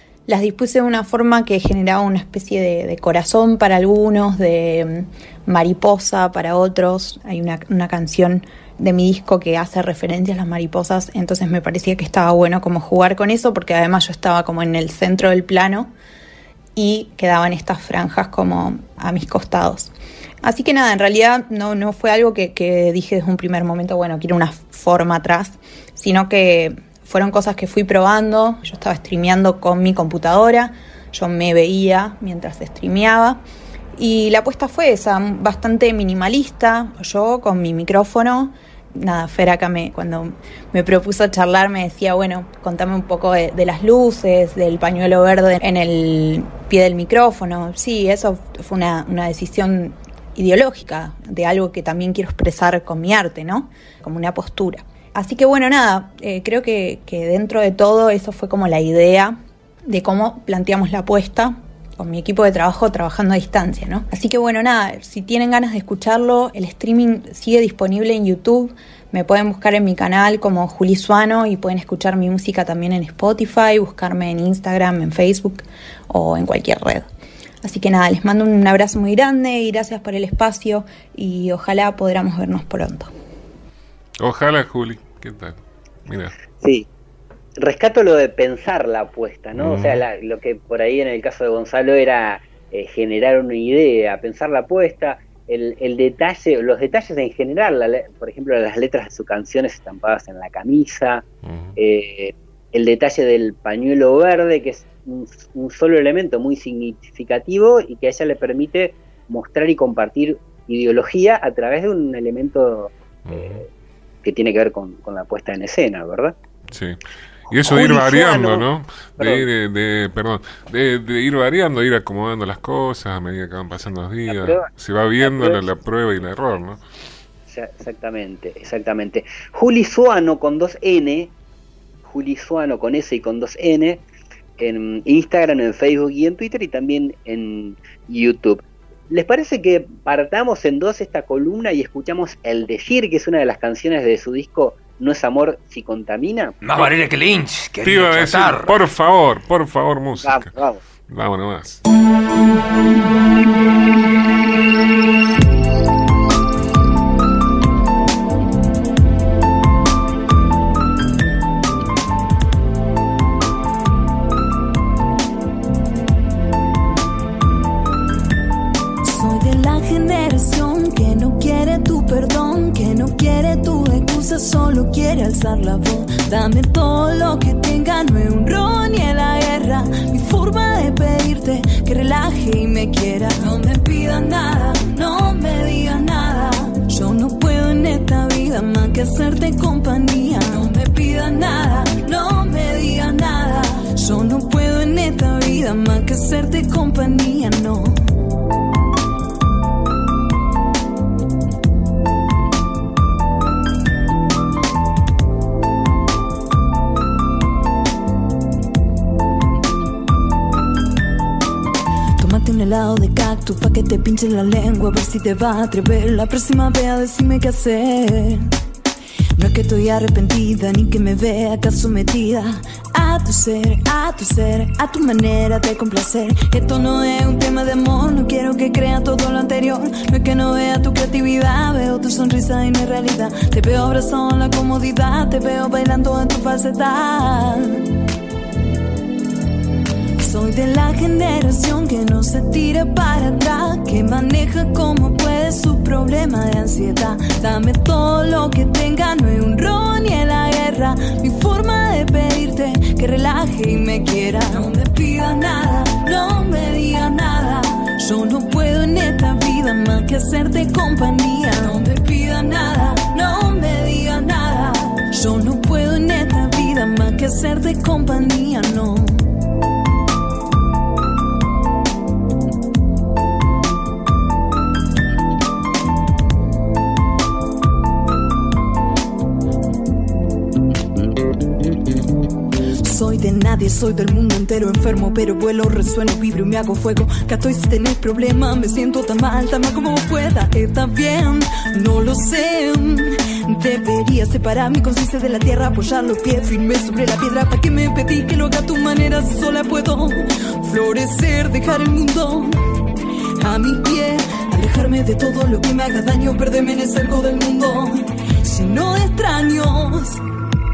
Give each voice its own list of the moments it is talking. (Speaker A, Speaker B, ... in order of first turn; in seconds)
Speaker A: 0.3-15.9, 16.8-19.9, 20.4-33.4, 34.0-59.4, 59.9-77.1, 77.6-83.1
Speaker B: 84.2-86.3, 89.5-90.0, 101.5-101.7, 113.3-113.6, 116.7-126.8, 147.8-150.5, 151.1-151.8
Speaker C: 86.6-86.9, 87.6-101.2, 101.8-113.7, 114.2-116.3, 117.5-118.6, 119.2-119.5, 124.3-124.7, 125.2-125.6, 127.5-131.3, 132.0-134.0, 134.6-146.6, 150.2-150.8
Speaker D: 146.6-148.8
Speaker E: 169.0-198.0, 212.2-218.5, 219.4-237.8, 240.2-269.2, 282.8-302.6, 303.4-310.2